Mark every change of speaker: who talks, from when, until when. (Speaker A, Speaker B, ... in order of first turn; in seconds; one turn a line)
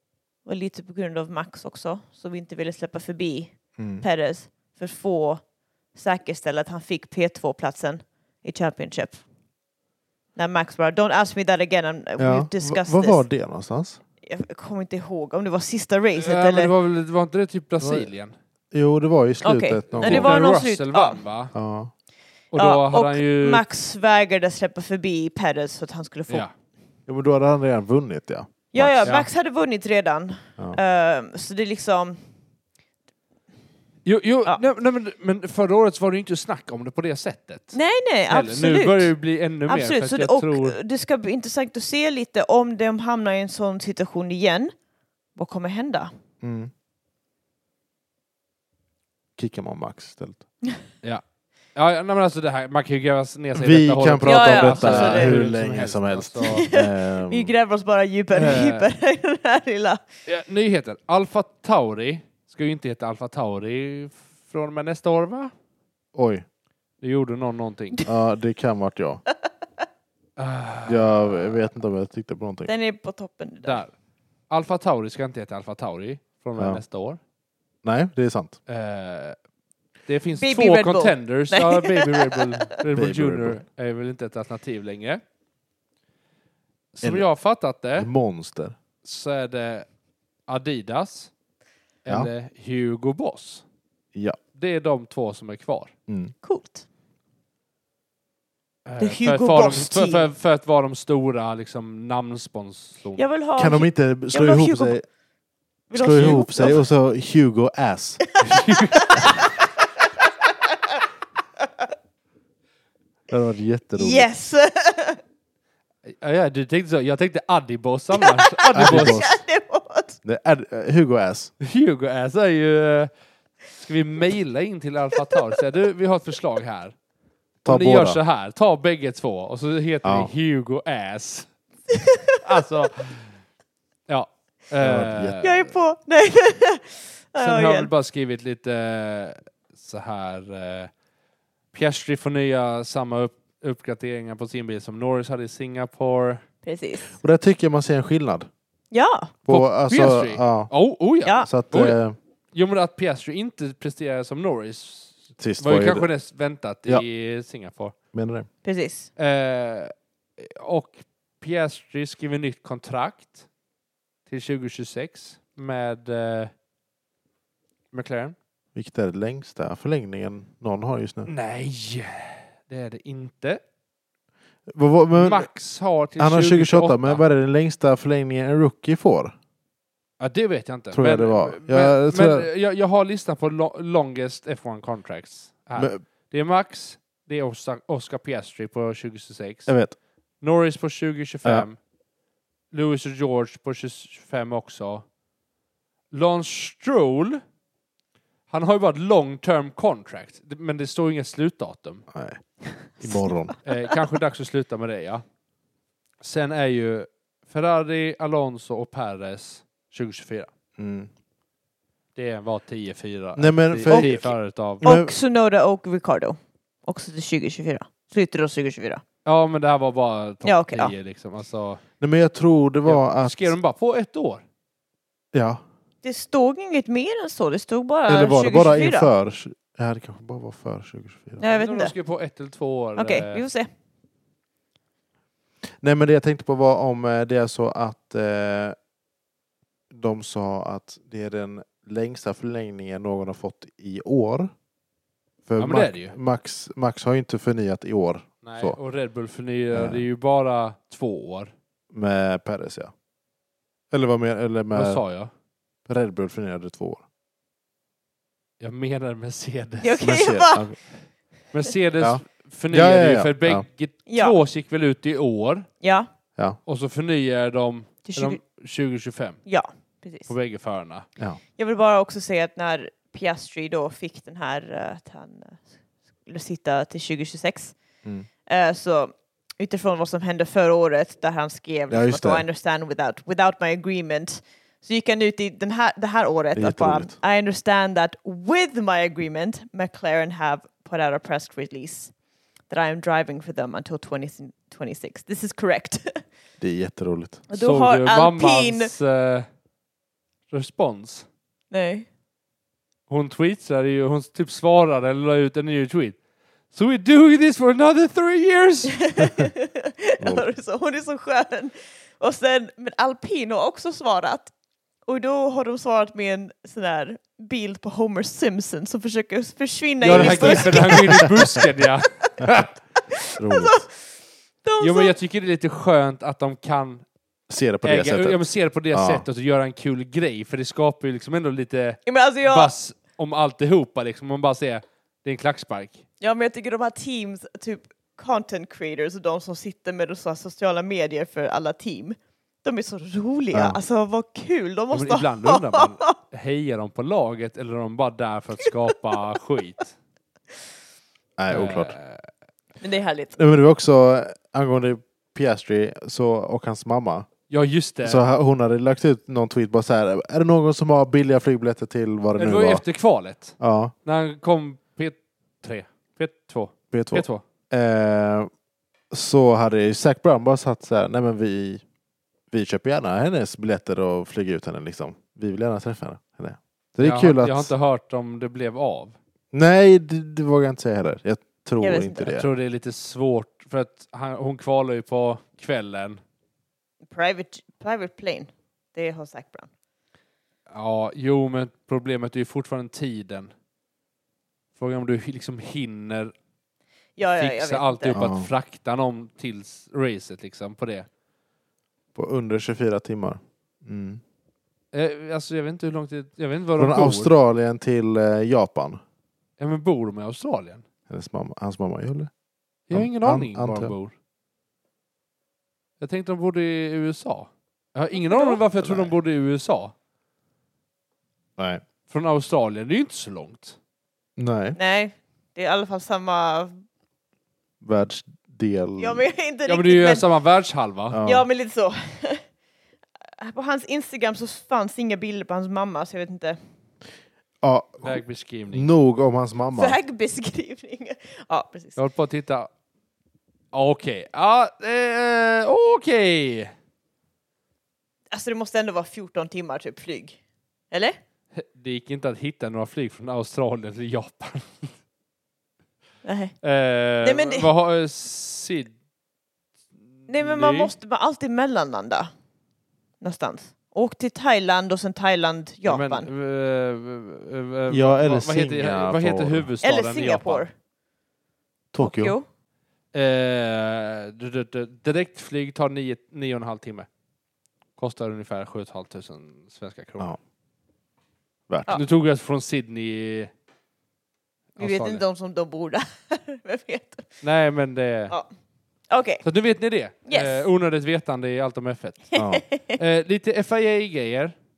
Speaker A: 0.4-5.4
Speaker B: 3.8-4.0
Speaker A: 5.9-9.2
Speaker A: 10.3-13.2
Speaker B: 12.2-14.0
Speaker A: 14.2-16.7
Speaker C: 16.2-18.3
Speaker B: 17.8-18.1
Speaker B: 18.7-20.4
Speaker A: 19.4-21.2
Speaker C: 19.9-21.5
Speaker B: 21.5-21.9
Speaker C: 22.5-23.6
Speaker A: 22.6-26.4
Speaker B: 27.1-29.1
Speaker A: 28.7-32.2
Speaker C: 34.0-37.8
Speaker A: 37.7-39.1
Speaker C: 38.3-40.8
Speaker A: 39.7-44.7
Speaker A: 45.4-46.1
Speaker B: 46.4-46.7
Speaker B: 49.4-50.4
Speaker C: 51.7-56.7
Speaker B: 53.5-57.5
Speaker A: 54.2-55.4
Speaker A: 56.4-60.0
Speaker C: 58.3-58.9
Speaker C: 60.2-65.5
Speaker B: 66.1-66.4
Speaker C: 67.0-68.0
Speaker B: 68.0-69.2
Speaker C: 70.4-71.6
Speaker B: 70.8-72.7
Speaker A: 72.6-73.8
Speaker C: 73.6-73.9
Speaker C: 74.5-77.2
Speaker B: 76.6-76.8
Speaker B: 77.8-78.6
Speaker C: 78.7-79.3
Speaker C: 80.1-85.2
Speaker A: 80.4-82.7
Speaker B: 82.9-83.6
Speaker C: 86.9-88.1
Speaker B: 88.0-88.8
Speaker C: 89.0-89.8
Speaker C: 90.5-91.3
Speaker C: 92.0-93.6
Speaker B: 94.1-94.4
Speaker C: 94.5-95.9
Speaker B: 96.1-96.3
Speaker A: 96.4-96.8
Speaker C: 98.8-103.2
Speaker A: 99.0-100.3
Speaker A: 103.2-105.0
Speaker B: 103.6-105.0
Speaker A: 105.9-106.8
Speaker B: 105.9-108.2
Speaker C: 106.0-106.6
Speaker A: 108.4-109.5
Speaker C: 108.4-109.5
Speaker B: 113.3-114.3
Speaker A: 113.9-115.2
Speaker C: 116.0-119.2
Speaker A: 118.1-120.2
Speaker B: 118.7-119.4
Speaker B: 120.2-121.5
Speaker C: 121.6-123.1
Speaker C: 123.7-126.9
Speaker B: 127.6-128.2
Speaker C: 127.6-131.5
Speaker B: 130.0-130.3
Speaker A: 131.9-132.3
Speaker C: 132.4-133.3
Speaker C: 134.1-135.7
Speaker B: 134.8-135.4
Speaker A: 135.4-137.9
Speaker C: 137.4-140.9
Speaker C: 141.7-146.4
Speaker A: 146.6-147.1
Speaker B: 147.1-148.5
Speaker A: 148.9-149.3
Speaker B: 149.4-150.7
Speaker C: 149.5-152.0
Speaker A: 151.2-151.5
Speaker B: 151.4-152.2
Speaker C: 152.5-157.9
Speaker B: 155.4-156.1
Speaker B: 158.1-158.5
Speaker A: 158.6-159.1
Speaker C: 159.2-163.4
Speaker C: 164.3-166.5
Speaker C: 167.9-168.3
Speaker B: 168.7-171.3
Speaker C: 171.2-173.6
Speaker B: 174.7-175.5
Speaker C: 175.2-177.2
Speaker B: 176.2-179.3
Speaker C: 180.2-189.7
Speaker B: 180.9-182.5
Speaker B: 189.7-189.9
Speaker C: 190.4-191.8
Speaker C: 192.7-195.0
Speaker C: 196.1-197.4
Speaker C: 198.5-202.1
Speaker B: 202.1-202.4
Speaker B: 203.0-203.5
Speaker C: 203.6-205.2
Speaker C: 206.2-210.5
Speaker B: 210.8-211.1
Speaker C: 212.2-214.8
Speaker B: 213.3-214.3
Speaker A: 213.9-214.3
Speaker B: 214.8-215.1
Speaker A: 214.8-219.0
Speaker C: 219.2-221.8
Speaker A: 220.4-220.9
Speaker B: 222.0-223.6
Speaker C: 222.8-224.4
Speaker B: 225.3-225.6
Speaker A: 226.0-229.1
Speaker B: 228.1-231.4
Speaker A: 231.4-231.9
Speaker C: 231.4-233.4
Speaker A: 232.9-233.7
Speaker B: 235.7-238.8
Speaker B: 239.9-244.5
Speaker B: 245.4-248.8
Speaker C: 245.6-246.2
Speaker C: 248.4-251.5
Speaker B: 249.7-250.0
Speaker B: 251.9-252.9
Speaker B: 253.9-255.0
Speaker C: 254.7-255.3
Speaker B: 255.8-257.0
Speaker C: 258.6-260.0
Speaker A: 259.8-260.7
Speaker B: 260.0-260.8
Speaker C: 261.5-265.7
Speaker B: 262.0-263.6
Speaker A: 264.1-264.4
Speaker A: 265.8-266.1
Speaker C: 266.6-269.4
Speaker A: 268.1-268.4
Speaker A: 269.4-270.3
Speaker C: 270.3-271.1
Speaker A: 271.6-275.7
Speaker A: 276.2-277.7
Speaker A: 278.5-292.1
Speaker B: 281.9-282.4
Speaker B: 286.6-287.2
Speaker A: 292.7-296.2
Speaker B: 296.6-297.4
Speaker A: 297.5-298.9
Speaker C: 297.5-299.5
Speaker C: 300.5-301.2
Speaker A: 301.7-302.1
Speaker C: 303.1-306.2
Speaker C: 306.7-309.4
Speaker A: 308.9-314.5
Speaker A: 315.1-321.6
Speaker C: 320.0-322.7
Speaker B: 320.1-321.7
Speaker B: 322.4-322.7
Speaker A: 323.0-323.9
Speaker B: 323.4-323.8
Speaker A: 324.6-325.1
Speaker C: 324.8-327.0
Speaker B: 327.5-329.2
Speaker C: 327.8-336.0
Speaker A: 332.0-332.7
Speaker A: 336.2-346.1
Speaker B: 343.5-343.8
Speaker C: 344.9-349.9
Speaker B: 351.4-351.9
Speaker C: 351.5-352.3
Speaker A: 352.8-353.4
Speaker B: 353.4-357.3
Speaker C: 357.5-358.2
Speaker B: 358.0-362.8
Speaker C: 362.4-367.4
Speaker B: 363.6-363.9
Speaker B: 366.9-368.5
Speaker B: 369.1-371.8
Speaker B: 372.5-377.7
Speaker C: 377.0-379.1
Speaker B: 379.5-382.5
Speaker A: 381.8-382.3
Speaker C: 382.3-386.2
Speaker A: 387.1-389.7
Speaker C: 390.7-393.5
Speaker C: 394.8-396.3
Speaker A: 397.2-398.2
Speaker C: 397.4-401.1
Speaker B: 398.1-398.5
Speaker B: 402.1-404.2
Speaker C: 404.9-407.3
Speaker B: 406.8-409.0
Speaker C: 409.6-410.8
Speaker B: 411.1-412.3
Speaker C: 412.9-414.1
Speaker B: 412.9-413.9
Speaker C: 416.0-419.9
Speaker A: 418.1-418.6
Speaker B: 418.8-419.1
Speaker B: 421.6-421.8
Speaker C: 422.1-423.8
Speaker B: 424.4-424.8
Speaker A: 424.8-426.8
Speaker B: 427.8-429.2
Speaker A: 429.0-430.3
Speaker C: 429.7-431.2
Speaker B: 431.1-431.4
Speaker A: 431.2-432.4
Speaker A: 433.4-436.6
Speaker B: 437.6-438.2
Speaker C: 438.0-438.9
Speaker B: 438.7-440.0
Speaker A: 439.7-442.0
Speaker C: 442.0-442.7
Speaker C: 443.7-446.7
Speaker A: 448.3-450.4
Speaker A: 450.9-451.2
Speaker C: 451.5-454.9
Speaker A: 456.2-456.5
Speaker C: 456.6-458.9
Speaker A: 457.2-457.7
Speaker A: 460.3-462.3
Speaker C: 460.3-460.9
Speaker A: 463.2-466.3
Speaker C: 465.8-470.6
Speaker B: 467.9-469.7
Speaker A: 469.8-470.7
Speaker B: 471.9-472.3
Speaker A: 472.0-472.4
Speaker C: 473.1-477.1
Speaker C: 478.0-480.4
Speaker B: 481.7-482.0
Speaker C: 481.9-483.5
Speaker C: 484.8-485.2
Speaker A: 484.8-487.3
Speaker C: 487.4-488.3
Speaker A: 489.1-489.4
Speaker C: 489.4-492.3
Speaker A: 490.2-490.7
Speaker B: 492.4-492.6
Speaker A: 492.4-493.0
Speaker C: 492.9-494.5